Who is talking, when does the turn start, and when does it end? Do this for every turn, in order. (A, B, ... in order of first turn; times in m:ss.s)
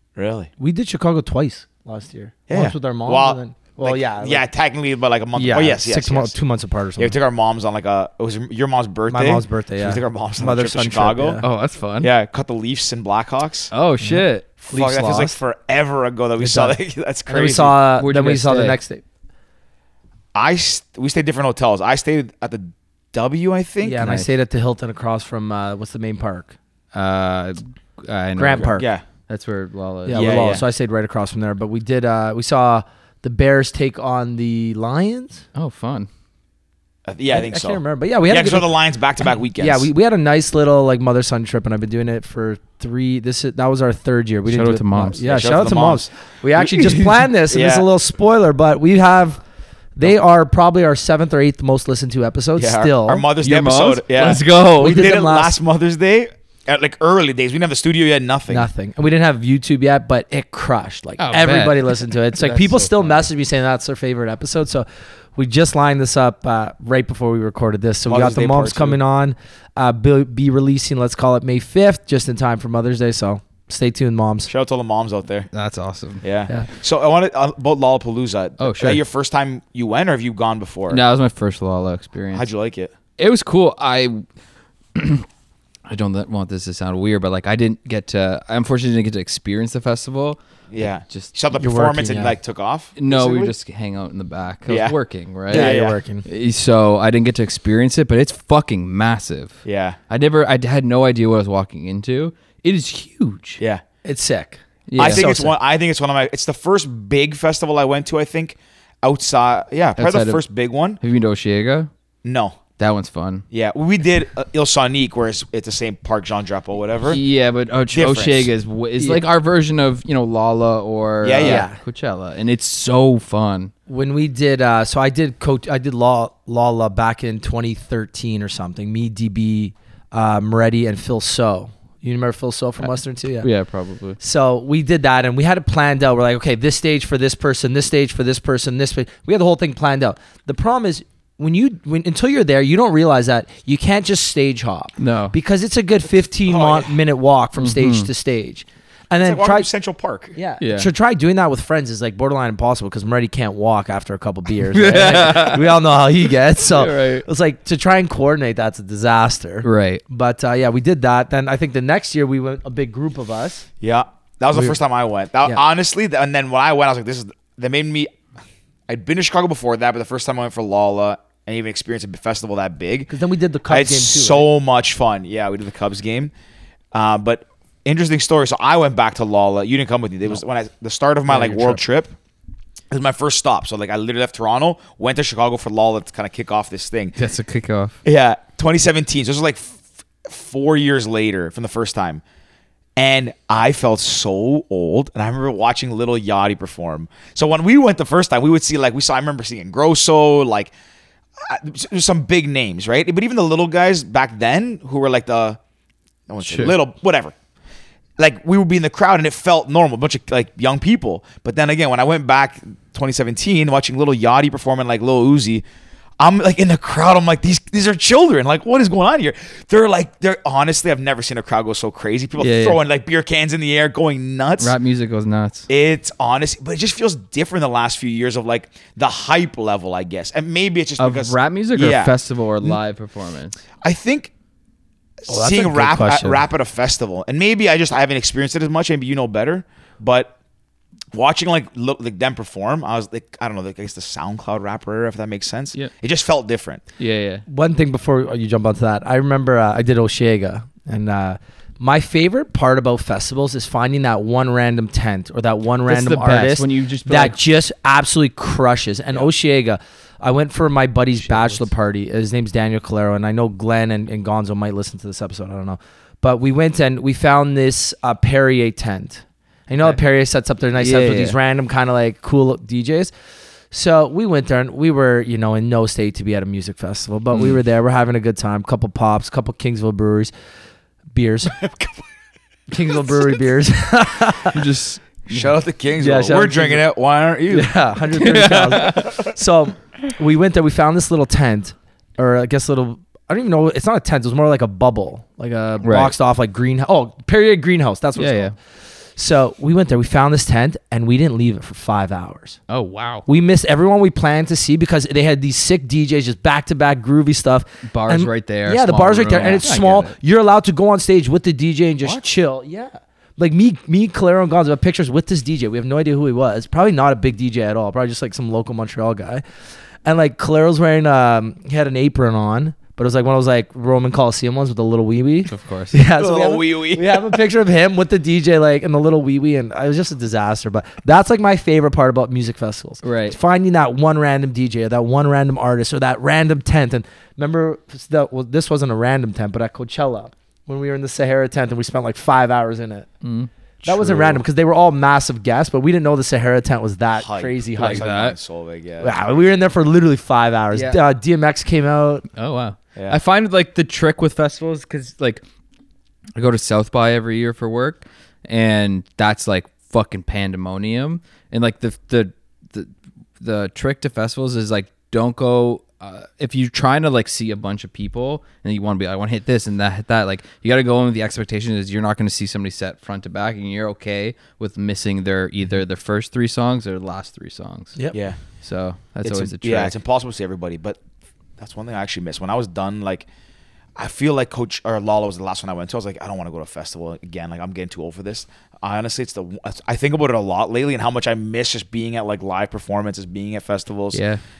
0:00.2-0:00.5 A
0:00.6-0:04.4 B
0:02.5-0:06.4 A
0:05.3-0:07.2 B
0:07.0-0:11.4 A
0:09.1-0:11.4 B
0:11.4-0:12.1 C
0:12.0-0:13.7 A
0:13.7-0:14.6 C
0:14.0-0:15.3 B
0:14.6-0:17.8 A
0:16.4-0:19.0 B
0:18.0-0:18.8 C
0:20.3-0:24.2 A
0:23.8-0:26.5 B
0:26.9-0:30.6 C
0:28.4-0:28.9 B
0:28.8-0:29.0 A
0:30.0-0:35.4 B
0:30.1-0:30.6 A
0:35.5-0:36.1 C
0:37.0-0:39.9 A
0:37.3-0:38.7 B
0:39.6-0:49.4 B
0:44.5-0:45.2 C
0:45.2-0:46.9 A
0:47.5-0:47.9 A
0:50.0-0:53.2 B
0:52.6-0:58.7 A
0:53.4-0:55.1 C
0:54.8-0:55.6 B
0:58.5-1:14.5 B
1:01.2-1:03.2 C
1:08.0-1:09.0 A
1:14.5-1:15.5 A
1:15.5-1:16.2 C
1:16.2-1:21.0 A
1:18.6-1:19.0 C
1:20.9-1:22.4 C
1:22.3-1:22.9 A
1:23.2-1:24.2 C
1:24.9-1:25.2 C
1:25.9-1:31.3 C
1:30.7-1:33.5 A
1:31.6-1:32.4 B
1:33.0-1:43.6 C
1:34.7-1:35.0 A
1:35.5-1:36.0 A
1:35.5-1:36.2 B
1:39.6-1:40.0 A
1:44.0-1:45.5 B
1:44.9-1:45.3 C
1:45.0-1:51.0 A
1:50.0-1:50.4 C
1:51.0-1:51.9 C
1:52.2-1:52.6 A
1:52.8-1:53.4 C
1:53.5-1:57.2 A
1:57.1-2:03.7 C
1:57.9-1:58.5 A
2:01.2-2:01.6 A
2:01.4-2:01.8 B
2:03.9-2:13.5 B
2:13.4-2:14.2 C
2:14.2-2:29.7 B
2:25.0-2:25.3 C
2:26.4-2:26.9 A
2:27.6-2:28.1 C
2:29.2-2:30.4 A
2:30.3-2:43.7 B
2:30.6-2:30.9 C
2:34.7-2:35.8 C
2:36.6-2:37.2 C
2:39.6-2:40.0 C
2:43.8-2:48.1 A
2:48.9-2:53.1 A
2:53.1-2:54.5 B
2:53.7-2:56.3 A
2:56.9-3:02.1 A
3:01.3-3:01.8 B
3:02.9-3:07.2 A
3:07.2-3:08.0 C
3:08.0-3:12.2 A
3:13.0-3:20.7 A
3:21.4-3:25.6 A
3:26.3-3:27.3 A
3:26.4-3:26.7 C
3:28.2-3:35.6 A
3:36.2-3:44.7 A
3:42.4-3:42.8 C
3:44.6-3:45.7 C
3:45.7-3:52.8 A
3:51.0-3:53.6 C
3:53.8-3:54.3 A
3:55.2-4:00.3 A
3:55.3-3:56.4 B
4:01.1-4:06.8 A
4:07.0-4:07.4 C
4:07.5-4:33.1 B
4:15.9-4:17.4 C
4:21.2-4:21.6 C
4:30.8-4:31.4 C
4:33.7-4:40.3 B
4:37.3-4:37.6 C
4:41.1-4:41.6 B
4:41.6-4:41.9 A
4:42.7-4:44.6 B
4:44.4-4:45.5 C
4:45.3-4:47.7 A
4:46.0-4:46.8 B
4:47.5-4:58.5 B
4:48.1-4:49.1 C
4:55.8-4:56.1 C
4:58.2-4:58.5 C
4:59.2-5:02.6 B
5:02.7-5:03.2 C
5:03.2-5:19.4 B
5:07.9-5:10.1 C
5:20.0-5:43.1 B
5:25.5-5:26.0 C
5:26.1-5:27.2 A
5:33.0-5:33.4 C
5:43.2-5:44.4 C
5:43.8-5:48.1 B
5:47.1-5:49.4 A
5:47.8-5:48.4 C
5:49.0-5:52.2 B
5:50.7-5:51.0 C
5:52.4-5:55.4 C
5:56.4-6:18.0 C
6:18.1-6:18.4 A
6:18.6-6:19.9 C
6:19.2-6:21.0 A
6:21.6-6:23.3 A
6:24.0-6:34.2 A
6:34.1-6:34.4 C